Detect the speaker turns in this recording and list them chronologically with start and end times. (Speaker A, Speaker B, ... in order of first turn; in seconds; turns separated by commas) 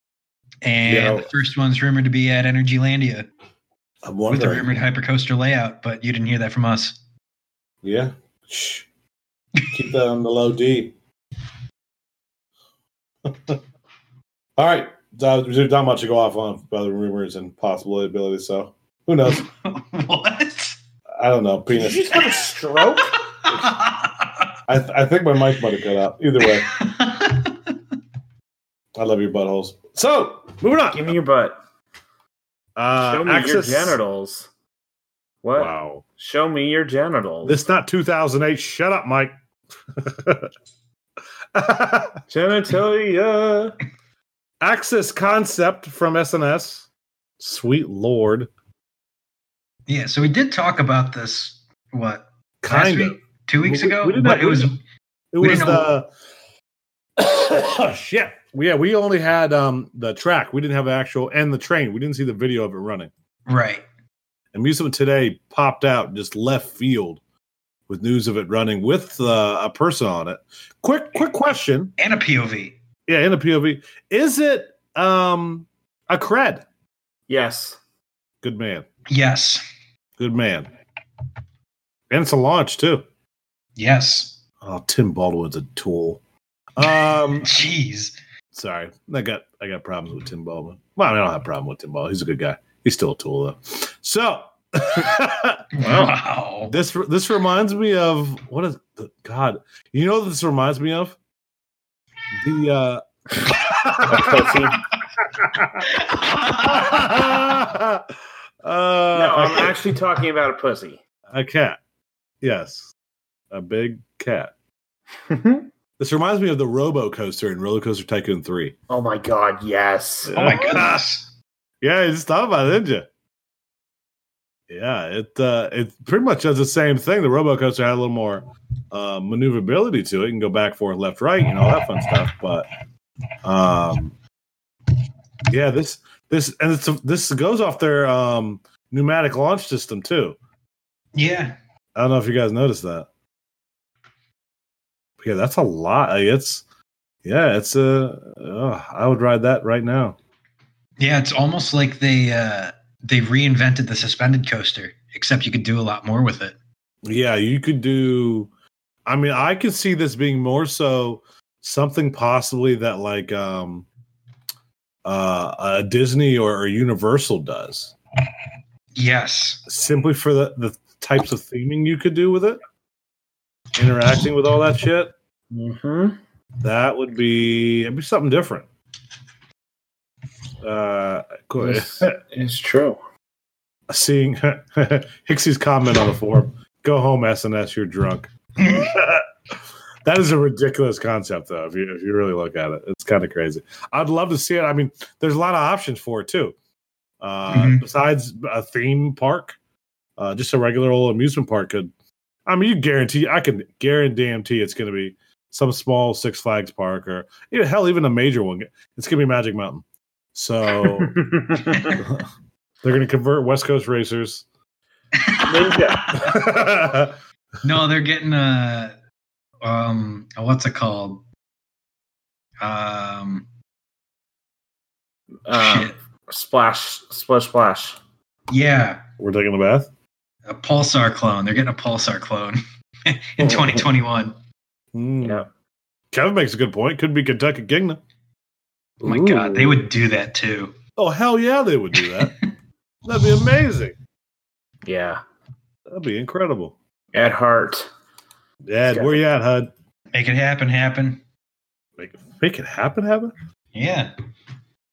Speaker A: 0.6-3.3, Speaker B: 0.8-1.3, Speaker B: 4.0-4.8, Speaker A: 4.3-7.0, Speaker B: 7.8-8.9, Speaker B: 9.6-10.9, Speaker B: 13.2-13.6, Speaker B: 14.6-19.4, Speaker A: 19.3-20.8, Speaker B: 21.2-22.4, Speaker C: 21.7-23.2, Speaker A: 22.9-24.3, Speaker B: 24.7-26.7, Speaker A: 26.4-27.8, Speaker B: 28.9-31.1, Speaker C: 30.9-31.6, Speaker B: 32.8-34.0, Speaker C: 33.0-34.5, Speaker C: 35.4-37.5, Speaker B: 35.5-36.0, Speaker B: 37.4-39.3, Speaker B: 40.0-40.5, Speaker B: 41.5-42.2, Speaker C: 42.3-43.8, Speaker B: 44.6-46.9, Speaker B: 47.4-48.5, Speaker A: 49.9-54.8, Speaker B: 52.6-54.7, Speaker B: 55.3-56.1, Speaker A: 55.4-55.9, Speaker B: 57.2-63.1, Speaker A: 63.5-63.8, Speaker B: 64.5-67.2, Speaker B: 67.9-71.9, Speaker A: 72.0-72.7, Speaker B: 73.1-76.7, Speaker C: 77.3-77.8, Speaker B: 78.4-78.8, Speaker A: 79.1-79.6, Speaker B: 80.2-80.7, Speaker B: 82.1-83.0, Speaker A: 83.8-84.4, Speaker B: 84.6-86.2, Speaker B: 86.8-87.5, Speaker A: 86.8-88.1, Speaker B: 88.5-95.7, Speaker A: 95.7-96.7, Speaker C: 95.8-96.2, Speaker B: 96.7-101.2, Speaker B: 102.3-104.5, Speaker C: 104.0-104.8, Speaker B: 105.2-105.9, Speaker A: 105.8-107.2, Speaker B: 106.6-108.1, Speaker B: 108.6-109.8, Speaker C: 109.1-111.0, Speaker B: 111.3-111.8, Speaker B: 112.4-112.9, Speaker B: 113.5-114.5, Speaker C: 115.3-115.7, Speaker B: 116.0-118.7, Speaker C: 118.9-120.6, Speaker B: 120.3-121.1, Speaker A: 120.3-121.2, Speaker B: 121.8-123.1, Speaker B: 124.7-132.7, Speaker B: 133.4-134.2, Speaker B: 135.5-140.4, Speaker A: 141.1-141.6, Speaker B: 141.9-143.1, Speaker B: 145.2-146.6, Speaker B: 147.2-150.2, Speaker A: 151.0-156.6, Speaker B: 157.0-158.5, Speaker B: 159.1-163.9, Speaker B: 165.0-167.9, Speaker A: 168.9-169.6, Speaker B: 169.7-172.6, Speaker B: 173.8-175.1, Speaker C: 175.5-176.2, Speaker B: 176.6-178.7, Speaker B: 180.6-182.2, Speaker C: 181.6-183.0, Speaker B: 183.9-189.3, Speaker A: 188.6-188.9, Speaker B: 190.0-196.5, Speaker B: 197.2-199.6, Speaker A: 197.5-197.8, Speaker B: 200.2-201.9, Speaker B: 202.4-211.2, Speaker C: 210.8-212.0, Speaker B: 211.9-212.2, Speaker B: 212.8-214.4, Speaker A: 215.2-216.4, Speaker C: 215.4-216.1, Speaker B: 216.1-217.2, Speaker A: 217.6-218.9, Speaker A: 219.6-221.2, Speaker A: 222.6-223.5, Speaker C: 225.4-228.0, Speaker A: 225.5-225.9, Speaker A: 228.5-229.0, Speaker B: 229.2-229.9, Speaker A: 230.4-234.3, Speaker B: 233.4-233.9, Speaker B: 234.9-235.4, Speaker B: 236.1-238.0, Speaker C: 239.0-239.8, Speaker A: 239.0-240.7, Speaker B: 241.0-242.3, Speaker A: 241.9-242.5, Speaker B: 243.0-243.9, Speaker C: 244.8-245.2, Speaker B: 245.8-246.8, Speaker C: 247.1-247.9, Speaker B: 248.7-249.7, Speaker C: 248.9-249.2, Speaker A: 250.1-251.2, Speaker B: 252.0-253.3, Speaker A: 253.7-254.1